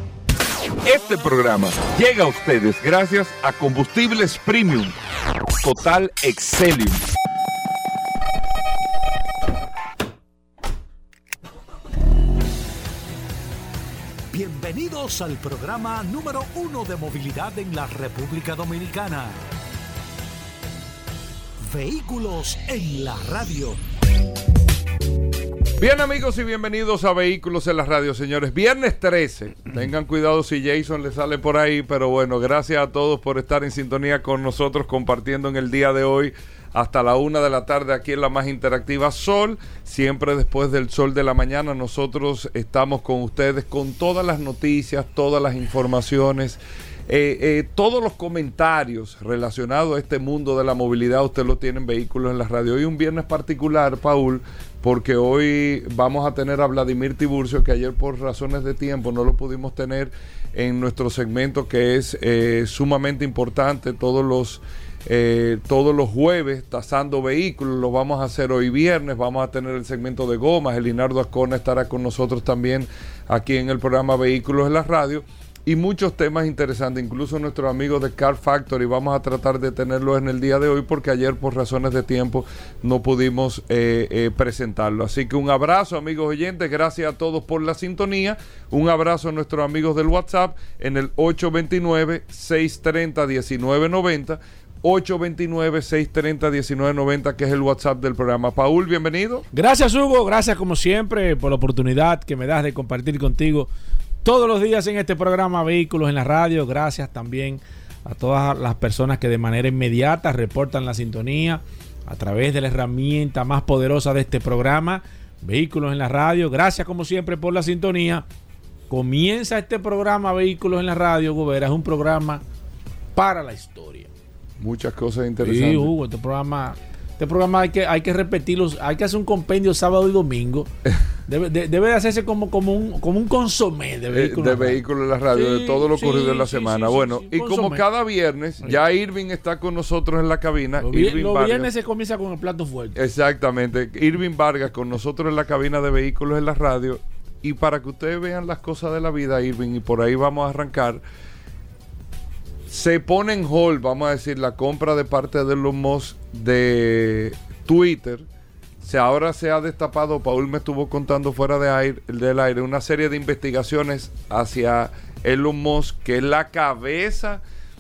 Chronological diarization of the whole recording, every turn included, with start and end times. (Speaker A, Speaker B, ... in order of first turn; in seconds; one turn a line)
Speaker A: 0.8-5.0
Speaker A: 5.6-7.0
Speaker B: 14.3-19.4
Speaker B: 21.6-23.8
Speaker A: 25.8-99.5
Speaker C: 99.5-103.7
Speaker C: 104.2-118.3
Speaker C: 118.9-122.4
Speaker C: 123.2-124.1
Speaker A: 124.6-125.9
Speaker C: 125.4-130.7
Speaker C: 131.3-137.8
Speaker A: 134.1-141.7
Speaker C: 140.8-143.0
Speaker A: 143.0-151.0
Speaker A: 152.7-158.2
Speaker A: 158.8-167.4